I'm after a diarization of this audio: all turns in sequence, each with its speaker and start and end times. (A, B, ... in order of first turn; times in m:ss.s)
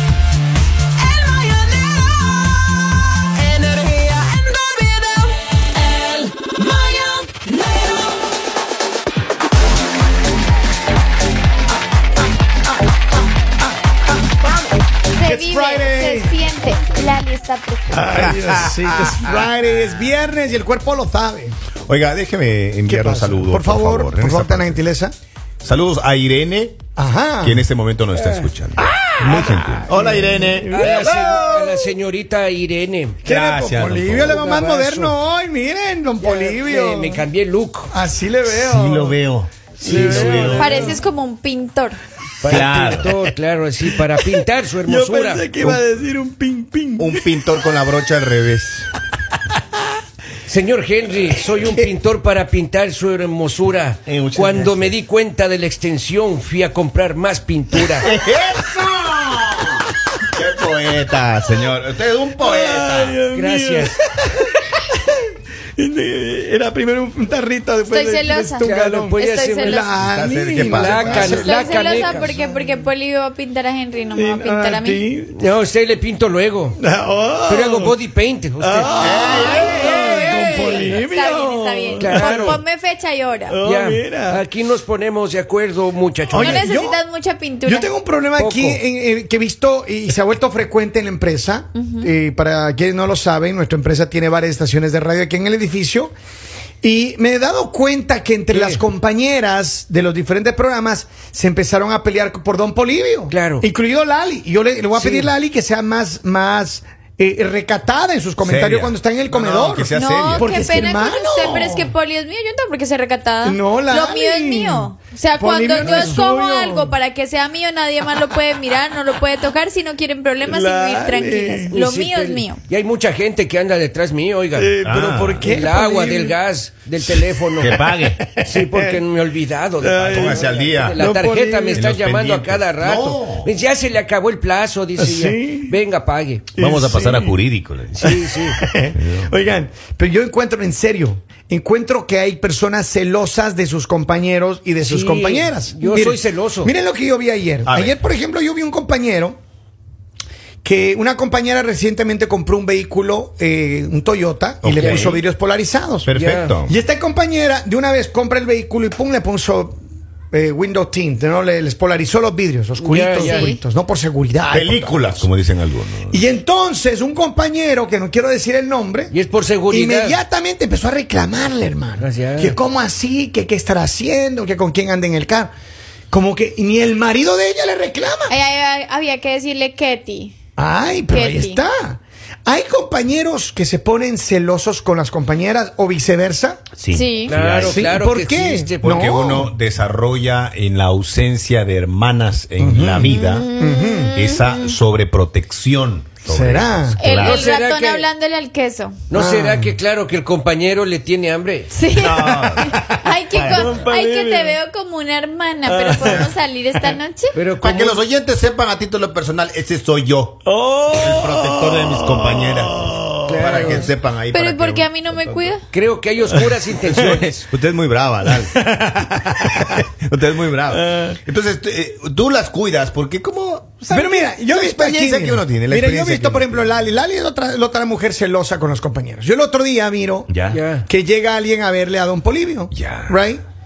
0:01.1-0:02.3 A
0:03.4-0:05.4 A
0:06.0-0:07.5 A
0:15.1-0:18.2 B
0:15.2-0:16.4 C
0:17.9-0:21.5 C
0:18.1-0:19.4 D
0:21.9-0:24.8 D
0:22.9-0:25.1 C
0:25.6-0:26.8 D
0:27.0-0:27.6 C
0:27.4-0:31.9 D
0:28.2-0:28.5 A
0:29.2-0:31.0 C
0:30.7-0:33.2 A
0:33.2-0:37.2 C
0:33.2-0:34.4 D
0:34.2-0:35.2 A
0:36.2-0:37.9 A
0:37.9-0:39.2 C
0:38.5-0:41.0 D
0:39.8-0:40.9 A
0:39.8-0:41.0 C
0:40.5-0:42.0 B
0:42.4-0:45.5 A
0:42.4-0:43.1 D
0:42.5-0:43.2 C
0:43.9-0:47.2 C
0:45.6-0:45.9 D
0:47.0-0:48.9 D
0:50.4-0:58.1 A
0:54.0-0:54.9 D
0:58.0-1:03.2 D
1:02.4-1:05.2 C
1:03.3-1:04.0 A
1:05.8-1:12.6 C
1:07.9-1:10.0 B
1:08.6-1:10.0 A
1:10.0-1:11.4 D
1:10.5-1:12.4 A
1:11.1-1:15.1 B
1:14.1-1:15.4 C
1:15.3-1:16.8 A
1:16.8-1:17.9 C
1:17.4-1:19.6 A
1:18.6-1:22.6 C
1:19.0-1:20.8 D
1:19.2-1:23.6 B
1:22.0-1:22.6 A
1:23.5-1:24.4 C
1:23.6-1:26.7 A
1:26.3-1:27.0 C
1:26.4-1:27.9 B
1:27.6-1:36.1 C
1:28.4-1:28.8 A
1:31.7-1:32.1 B
1:36.8-1:51.9 C
1:38.5-1:38.8 A
1:43.3-1:43.7 A
1:44.9-1:45.3 A
1:48.4-1:50.7 D
1:49.9-2:02.6 B
1:53.4-1:57.0 C
1:55.8-1:56.1 D
2:00.4-2:01.8 C
2:01.7-2:04.7 A
2:04.5-2:06.4 C
2:04.8-2:05.5 D
2:05.4-2:07.8 A
2:07.0-2:09.0 C
2:07.6-2:08.3 D
2:08.4-2:16.5 A
2:09.8-2:11.8 C
2:10.1-2:11.1 D
2:11.7-2:13.5 D
2:15.0-2:15.8 C
2:16.5-2:17.3 C
2:16.6-2:18.1 D
2:18.0-2:18.6 A
2:18.0-2:29.4 C
2:18.9-2:19.3 D
2:24.8-2:26.7 A
2:27.6-2:28.0 D
2:30.6-2:36.1 C
2:34.6-2:35.2 D
2:34.7-2:35.2 A
2:36.0-2:36.7 D
2:36.1-2:36.6 A
2:36.6-2:39.8 C
2:40.3-2:45.2 C
2:42.8-2:43.5 A
2:43.2-2:43.6 B
2:44.5-2:46.2 D
2:46.1-2:49.1 C
2:49.1-2:50.2 A
2:49.7-2:55.5 C
2:52.0-2:52.5 A
2:56.1-2:58.3 C
2:58.3-3:00.3 B
3:00.6-3:06.6 C
3:01.1-3:01.6 B
3:06.8-3:07.8 D
3:06.9-3:07.3 B
3:07.2-3:08.9 A
3:07.6-3:09.5 C
3:08.8-3:13.5 D
3:12.6-3:14.3 C
3:13.1-3:14.7 B
3:14.1-3:17.4 D
3:16.2-3:17.0 C
3:17.0-3:19.0 B
3:17.1-3:18.1 A
3:19.1-3:21.7 A
3:19.1-3:19.7 C
3:21.7-3:27.4 B
3:21.9-3:23.8 D
3:23.3-3:24.6 C
3:25.6-3:26.8 C
3:26.0-3:26.3 D
3:27.3-3:28.0 A
3:27.6-3:35.5 D
3:30.4-3:33.4 C
3:33.2-3:33.9 A
3:34.3-3:35.6 B
3:35.7-3:37.5 A
3:37.2-3:46.8 D
3:38.7-3:39.8 C
3:40.7-3:41.2 C
3:43.9-3:53.4 C
3:50.3-3:50.6 D
3:50.5-3:50.8 A
3:52.7-3:53.2 D